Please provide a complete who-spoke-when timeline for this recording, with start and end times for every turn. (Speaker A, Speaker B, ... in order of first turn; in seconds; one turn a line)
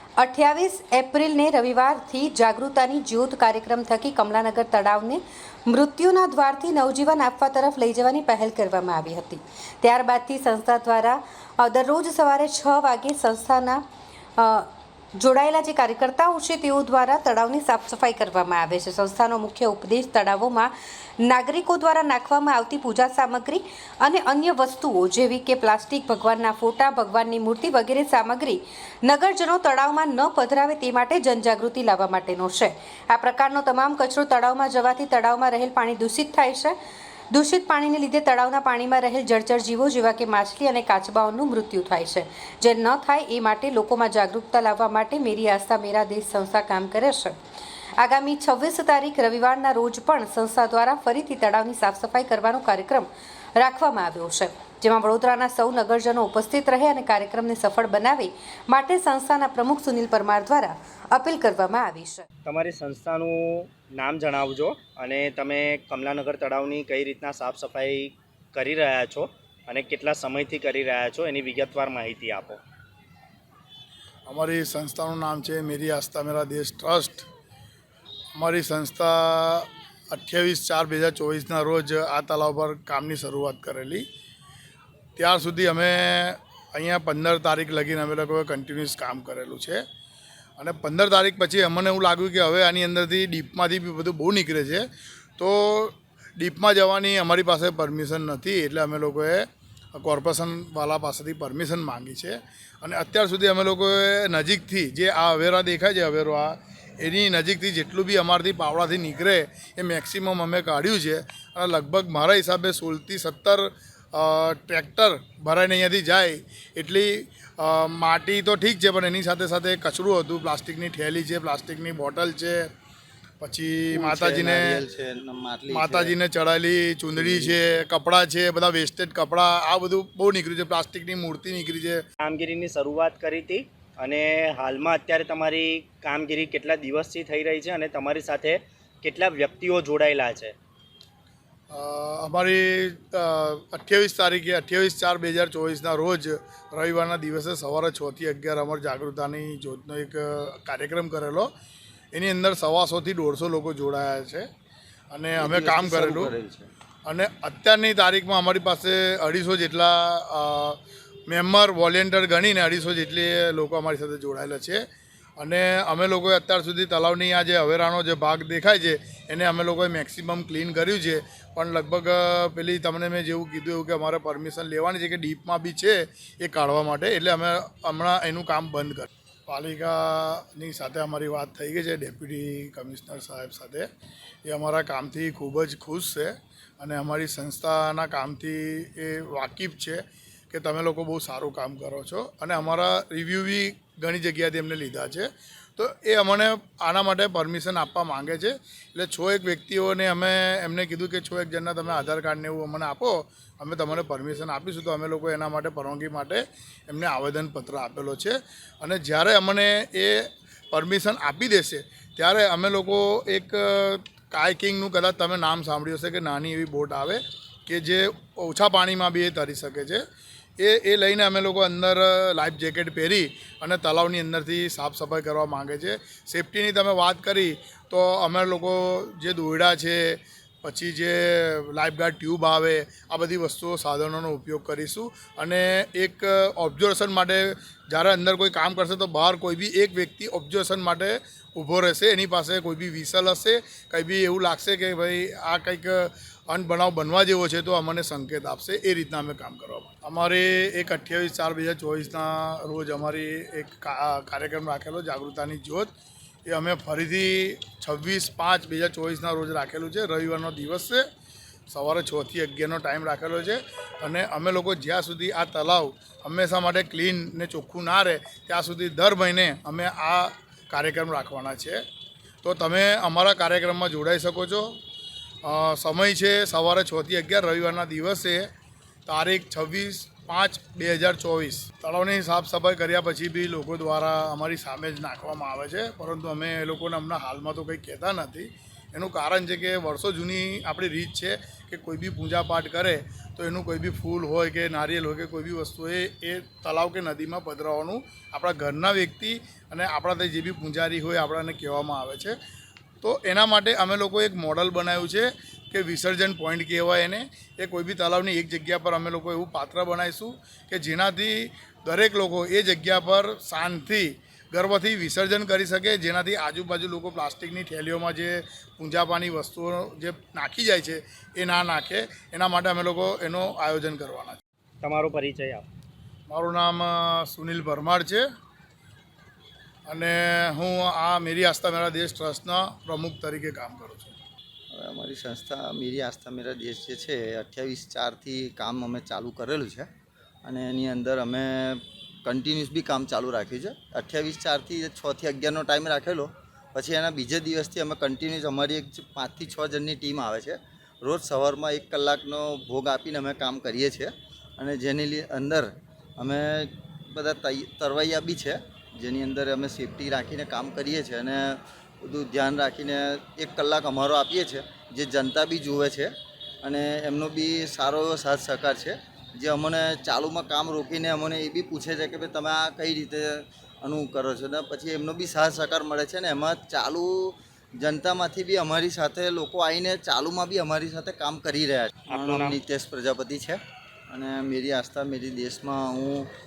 Speaker A: 0.2-13.8
Speaker A: 14.4-36.8
Speaker A: 37.3-47.4
Speaker A: 48.0-62.3
Speaker B: 62.5-72.6
Speaker C: 74.3-77.3
Speaker C: 78.3-84.0
Speaker C: 85.2-89.8
Speaker C: 90.6-94.9
Speaker C: 95.4-122.7
Speaker C: 123.4-124.8
Speaker D: 123.9-126.2
Speaker C: 125.7-132.0
Speaker D: 127.2-127.6
Speaker B: 132.2-140.6
Speaker C: 141.7-151.5
Speaker C: 152.1-154.5
Speaker C: 155.1-156.3
Speaker D: 155.4-156.7
Speaker C: 157.1-164.8
Speaker C: 165.4-183.9
Speaker C: 184.4-220.0
Speaker C: 220.6-255.9
Speaker C: 256.5-261.0
Speaker C: 261.7-271.8
Speaker C: 272.4-274.8
Speaker C: 275.4-278.5
Speaker C: 279.1-302.4
Speaker C: 303.0-324.4
Speaker B: 324.8-325.7
Speaker C: 326.3-328.2
Speaker C: 329.9-334.2
Speaker D: 334.7-339.9
Speaker D: 340.4-386.3
Speaker B: 382.1-382.6